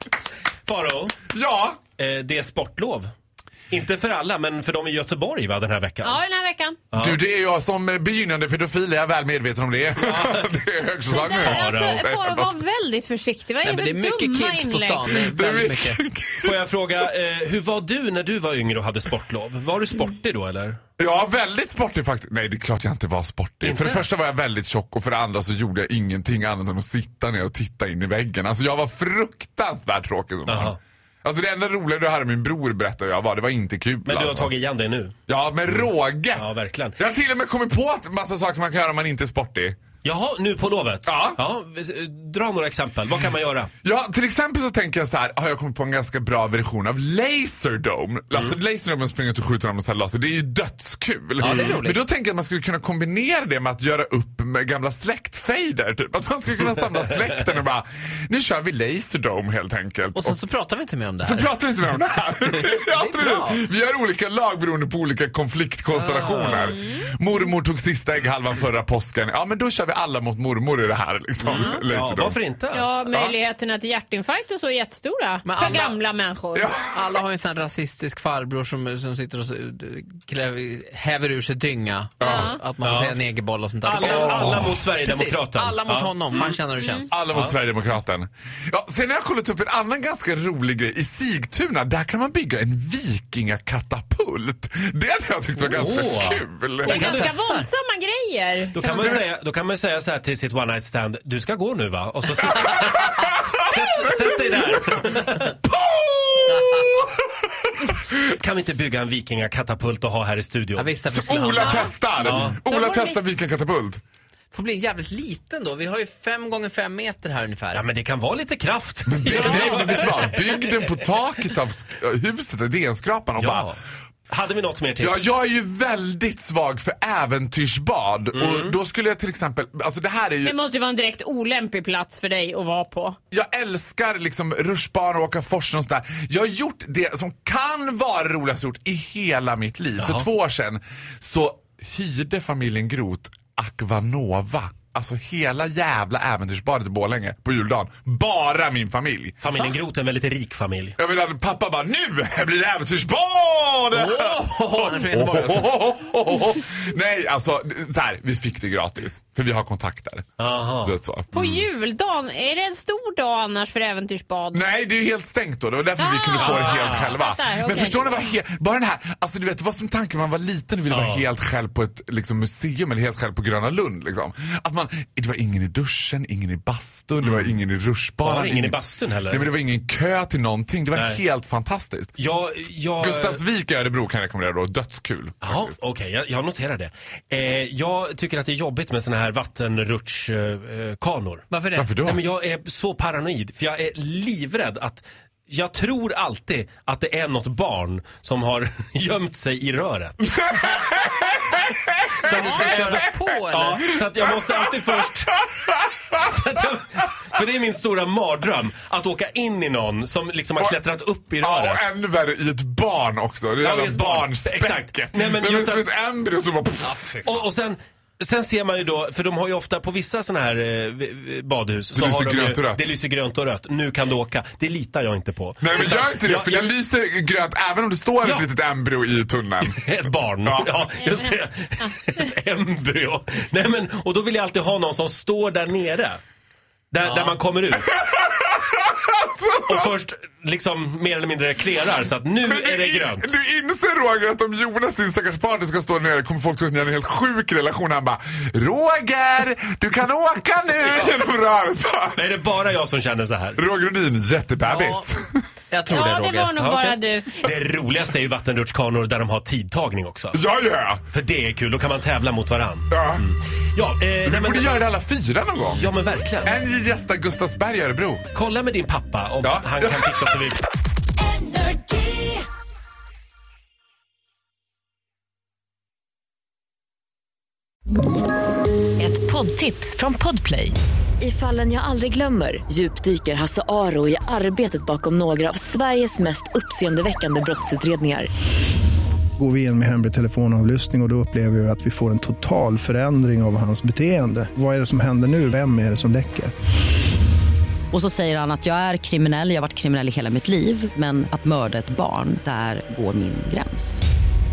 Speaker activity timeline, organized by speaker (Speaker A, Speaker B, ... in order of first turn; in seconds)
Speaker A: 0.7-1.1, 2.0-3.1, 3.7-6.2, 6.9-7.2, 10.0-10.5, 11.3-12.0, 16.4-20.8, 23.6-24.0, 30.5-30.8, 34.0-35.1, 36.4-37.0, 40.0-43.7, 66.0-66.7, 71.9-72.8, 82.8-83.2, 83.8-86.5, 95.7-97.5, 98.7-105.5, 108.2-110.9, 112.2-112.6, 117.7-120.7, 124.3-125.3, 128.3-128.7, 140.0-140.2, 149.4-150.9, 160.4-160.9, 166.4-167.1, 170.9-171.3, 177.2-177.5, 178.2-179.5, 180.9-181.2, 182.2-183.4, 185.4-191.4, 192.0-200.3, 202.1-205.4, 206.1-211.8, 213.6-215.9, 217.2-226.7, 229.7-236.2, 236.9-237.9, 239.7-243.4, 252.2-253.6, 256.6-260.4, 261.1-264.8, 265.7-266.5, 268.3-270.6
Speaker B: 1.3-1.8, 7.0-12.6, 15.1-16.6, 21.0-34.5, 35.3-39.8, 41.0-41.4, 43.8-60.4, 61.2-72.4, 76.5-77.2, 82.2-82.5, 84.0-84.8, 87.1-97.2, 98.9-99.2, 102.4-107.8, 111.1-114.0, 119.1-123.7, 125.0-130.6, 133.3-149.4, 151.0-160.3, 160.8-161.4, 164.5-182.1, 183.0-185.8, 191.8-192.2, 200.5-202.9, 204.4-204.9, 205.5-206.1, 211.4-217.2, 221.9-222.9, 225.6-231.0, 237.9-239.9, 242.4-252.4, 253.6-255.4, 260.3-261.0, 262.9-263.2, 264.2-265.9, 266.4-268.3, 269.4-270.3
Speaker C: 6.0-6.8, 11.1-15.2, 66.7-67.0, 71.5-71.8, 72.7-76.7, 82.2-82.6, 86.8-87.1, 96.9-99.2, 111.5-111.9, 112.7-113.2, 130.4-133.2, 161.3-164.6, 166.0-168.3, 255.9-257.4
Speaker D: 13.6-16.0, 51.4-52.0, 60.1-61.5, 62.5-63.6, 75.4-76.0, 76.8-87.1, 96.8-97.6, 110.8-111.9, 114.5-117.8, 119.3-120.0, 123.5-123.7, 153.9-155.9, 191.5-191.9, 202.2-203.9, 216.9-217.3, 254.6-255.0, 255.7-256.6
Speaker E: 271.5-272.2, 279.0-288.3
Speaker F: 289.4-296.5
Speaker G: 297.9-304.0